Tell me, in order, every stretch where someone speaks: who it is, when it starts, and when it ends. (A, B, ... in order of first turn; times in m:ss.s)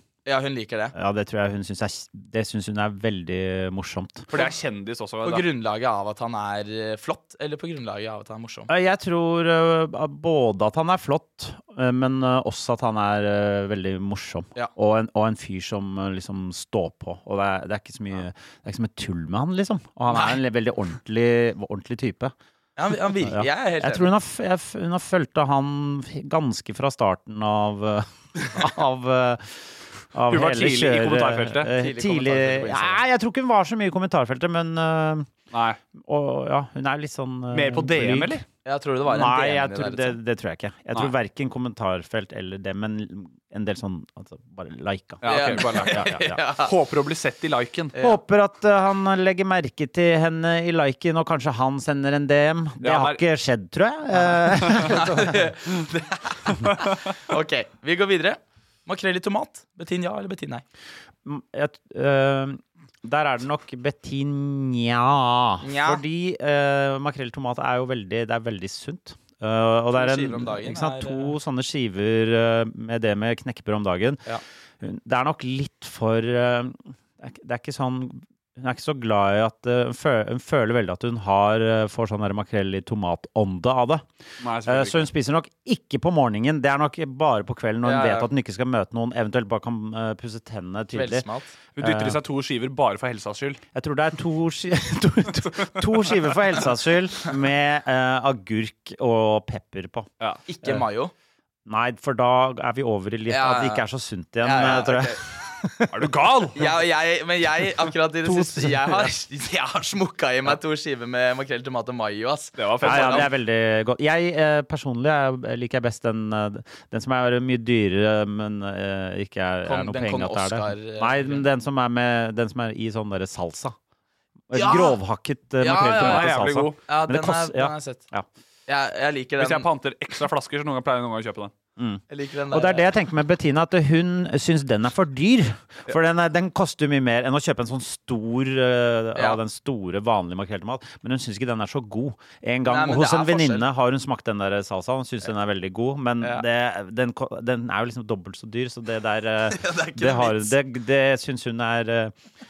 0:00.2-0:00.9 A
0:00.9-0:04.3 B
0:04.3-0:05.5 C
0:05.2-0:08.7 A
0:08.7-0:22.3 B
0:20.1-0:20.4 A
0:22.8-0:24.1 A
0:23.2-0:35.3 B
0:30.3-0:31.7 C
0:31.7-0:33.0 A
0:35.5-0:35.8 C
0:36.0-0:38.4 B
0:37.5-0:38.4 C
0:38.6-0:40.2 A
0:39.1-0:46.4 B
0:45.2-0:47.9 C
0:45.2-0:46.7 A
0:48.0-0:55.4 B
0:52.8-0:53.2 C
0:54.6-0:54.9 C
0:54.8-1:00.6 A
1:01.2-1:14.2 B
1:05.6-1:06.0 A
1:09.9-1:11.3 A
1:14.8-1:24.1 B
1:24.4-1:25.1 C
1:24.6-1:31.2 B
1:27.8-1:28.3 A
1:30.9-1:31.5 A
1:31.8-1:33.6 C
1:31.8-1:32.2 B
1:33.7-1:40.1 B
1:40.5-1:41.1 A
1:41.6-1:45.9 B
1:43.3-1:43.8 A
1:44.4-1:45.2 A
1:45.9-1:46.7 C
1:46.5-1:53.3 A
1:48.2-1:49.1 B
1:52.6-1:53.3 C
1:52.8-2:03.8 B
1:59.6-2:01.4 A
2:04.5-2:08.3 B
2:04.5-2:05.0 A
2:05.6-2:08.0 A
2:05.9-2:06.8 C
2:08.7-2:09.7 A
2:09.4-2:11.5 C
2:11.8-2:32.1 B
2:12.1-2:12.9 A
2:22.6-2:23.6 A
2:29.5-2:30.5 A